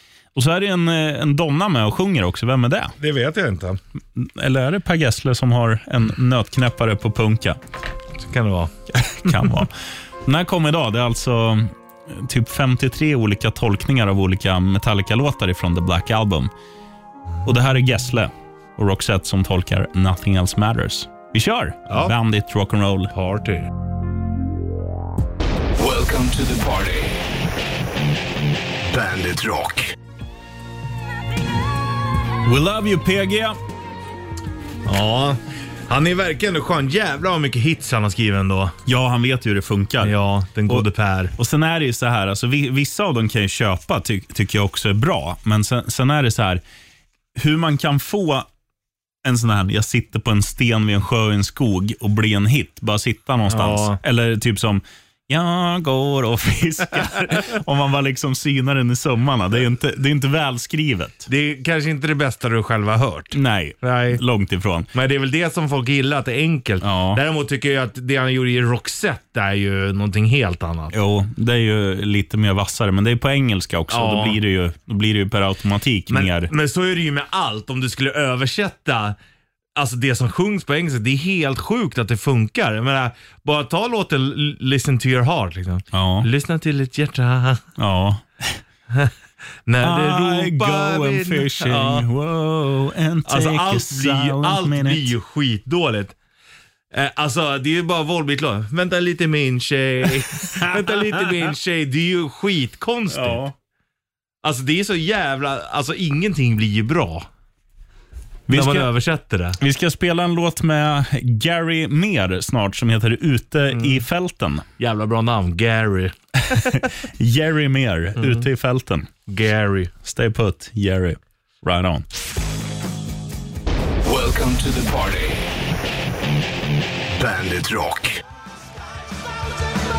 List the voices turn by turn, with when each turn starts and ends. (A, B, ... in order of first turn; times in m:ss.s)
0:00.3-0:02.9 A
0:03.0-0:03.8 B
0:04.2-0:07.6 A
0:08.2-0:08.7 B
0:09.0-0:09.7 A
0:09.2-0:09.5 B
0:10.2-0:16.5 A
0:17.4-0:23.1 A
0:23.1-0:23.7 B
0:25.7-0:27.2 C
0:28.9-0:29.9 C
0:32.4-0:33.6 A
0:34.8-0:38.8 B
0:38.8-0:40.2 A
0:40.0-0:41.3 B
0:40.7-0:46.6 A
0:47.4-0:48.5 A
0:49.2-1:01.3 A
0:53.5-0:54.0 B
1:01.3-1:04.2 B
1:03.3-1:04.9 A
1:04.9-1:10.9 B
1:06.8-1:07.2 A
1:10.9-1:16.5 A
1:13.9-1:14.4 B
1:16.1-1:19.2 B
1:19.8-1:27.6 B
1:25.9-1:26.3 A
1:27.8-1:28.6 A
1:29.6-1:32.1 B
1:29.8-1:35.1 A
1:33.2-1:36.1 B
1:36.9-1:43.4 B
1:40.5-1:41.3 A
1:43.1-1:43.5 A
1:44.4-1:47.2 B
1:48.5-1:48.9 A
1:48.5-1:49.6 B
1:49.6-1:54.6 A
1:53.7-1:54.0 B
1:54.8-1:56.8 B
1:56.5-1:59.1 A
1:58.2-1:58.4 B
1:59.3-1:59.9 B
2:00.0-2:02.0 A
2:04.0-2:05.4 C
2:07.2-2:08.2 C